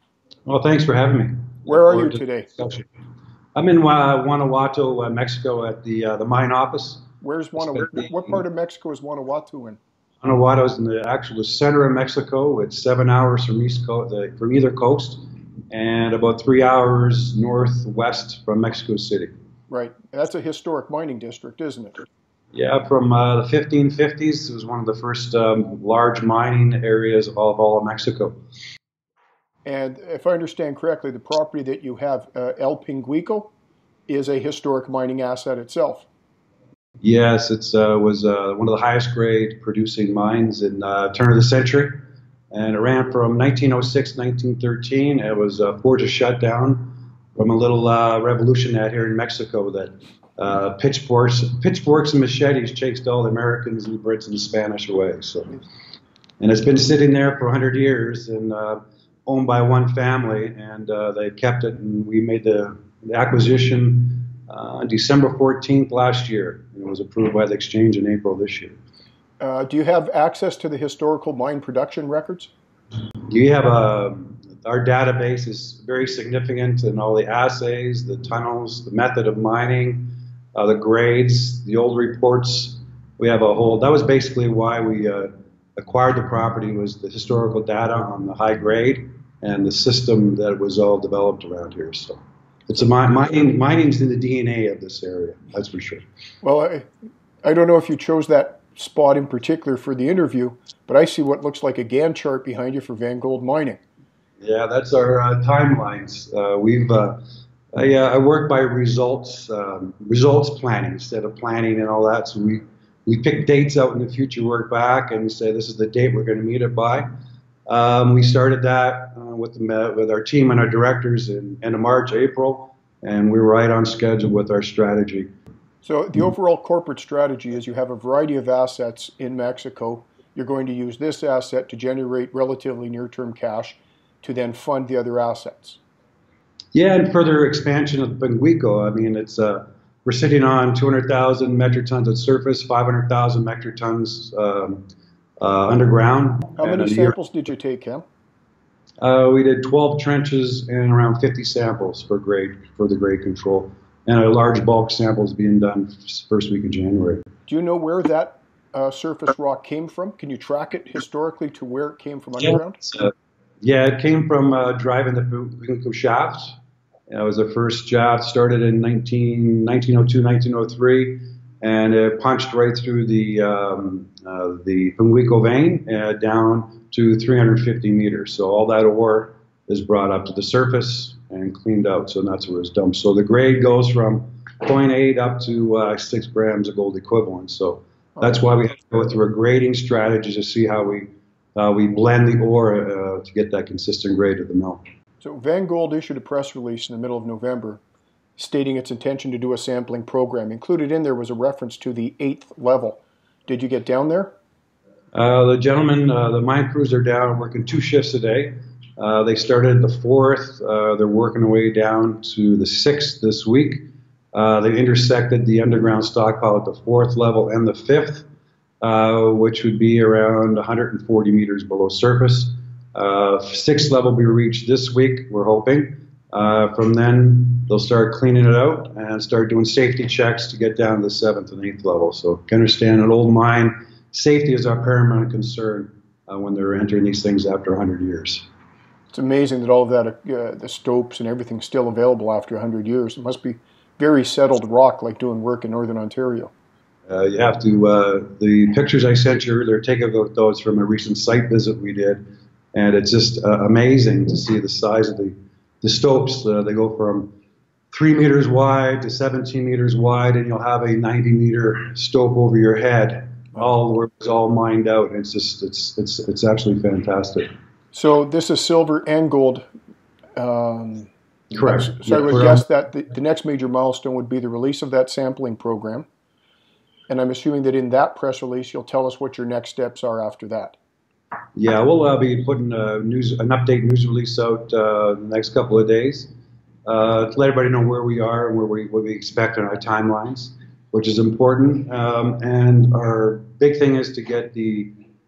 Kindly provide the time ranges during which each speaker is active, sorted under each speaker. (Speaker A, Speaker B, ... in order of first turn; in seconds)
Speaker A: 0.5-2.9, 3.5-7.0, 7.6-8.4, 10.2-19.3, 22.5-28.4, 37.0-55.6, 56.4-68.8, 73.3-96.0, 104.4-107.2, 107.7-117.1, 117.7-125.3, 136.7-144.8, 145.4-147.1, 149.0-157.2, 162.8-163.1, 163.6-166.5, 167.1-194.8, 205.1-218.2, 218.8-238.4, 247.1-257.3, 257.9-267.5, 271.5-272.6, 281.6-286.3, 286.9-294.9
Speaker B: 1.7-2.5, 7.2-9.8, 19.7-22.1, 29.6-33.5, 34.1-36.1, 69.4-72.5, 96.4-96.9, 97.4-103.8, 125.8-135.8, 146.6-148.0, 157.5-162.8, 195.2-197.8, 198.4-204.3, 239.1-246.5, 267.9-269.7, 270.4-271.1, 271.6-276.1, 277.1-280.8